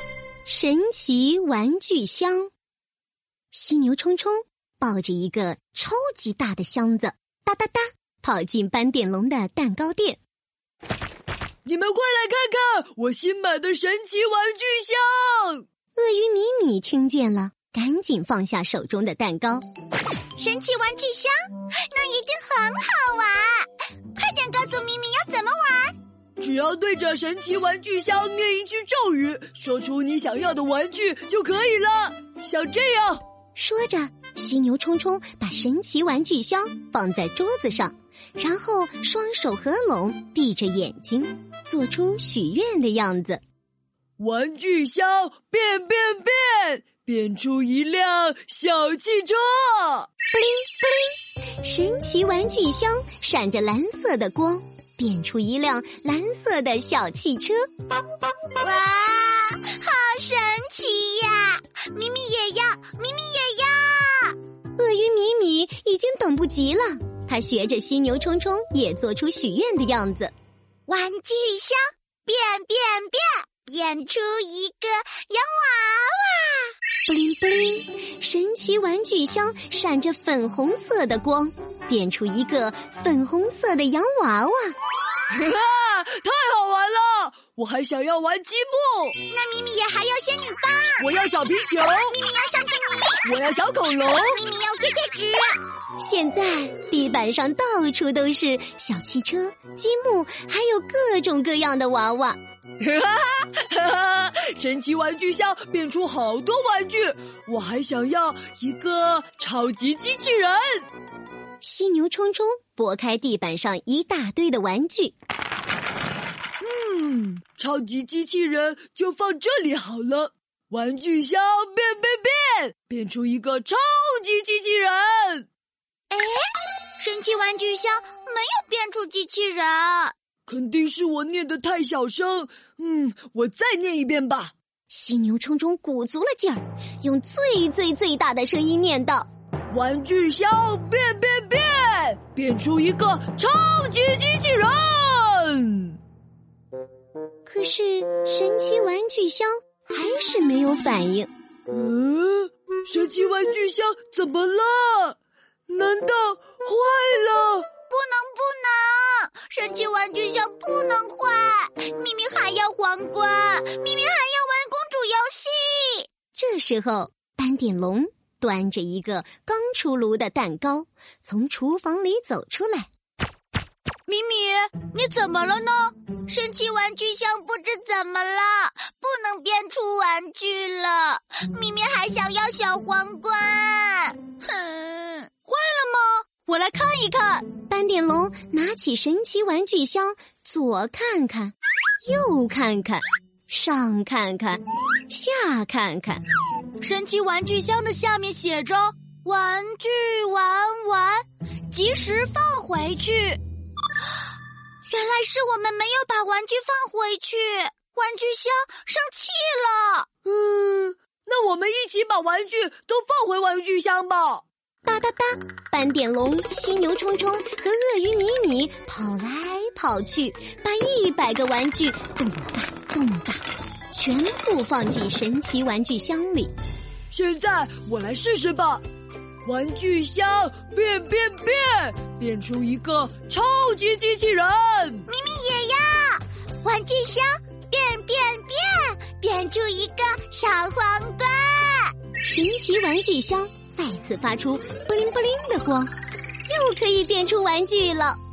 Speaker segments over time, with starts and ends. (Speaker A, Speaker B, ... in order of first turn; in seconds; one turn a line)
Speaker A: 0.5-2.5
Speaker A: 3.5-10.2
Speaker B: 11.6-15.6
Speaker A: 15.9-19.6
Speaker C: 20.4-21.3
Speaker C: 21.9-25.9
Speaker B: 26.4-33.2
Speaker A: 33.5-43.4
Speaker B: 44.2-50.1
Speaker A: 50.3-57.6
Speaker C: 58.6-64.3
Speaker A: 64.8-70.3
Speaker C: 70.9-76.7
Speaker A: 77.1-84.7
Speaker B: 85.3-89.2
Speaker C: 89.2-91.1
Speaker B: 91.0-92.1
Speaker C: 92.1-93.2
Speaker B: 93.2-94.4
Speaker C: 94.1-95.6
Speaker A: 96.0-102.4
Speaker B: 102.8-110.8
Speaker A: 111.6-115.1
Speaker B: 116.6-125.5
Speaker C: 126.1-126.4
Speaker C: 127.0-130.1
Speaker B: 130.5-134.5
Speaker A: 134.9-139.3
Speaker B: 139.7-146.0
Speaker A: 147.5-151.3
Speaker B: 151.7-155.2
Speaker B: 155.7-157.7
Speaker C: 157.9-166.1
Speaker A: 166.3-172.9
Speaker C: 174.1-187.5
Speaker A: 187.7-191.5
Speaker A: 192.0-196.2
Speaker C: 196.8-203.4
Speaker C: 204.9-210.1
Speaker B: 210.2-214.4
Speaker A: 214.8-226.5
Speaker B: 227.1-228.8
Speaker B: 229.5-235.0
Speaker C: 235.1-241.9
Speaker A: 242.2-245.9
Speaker A: 246.5-248.2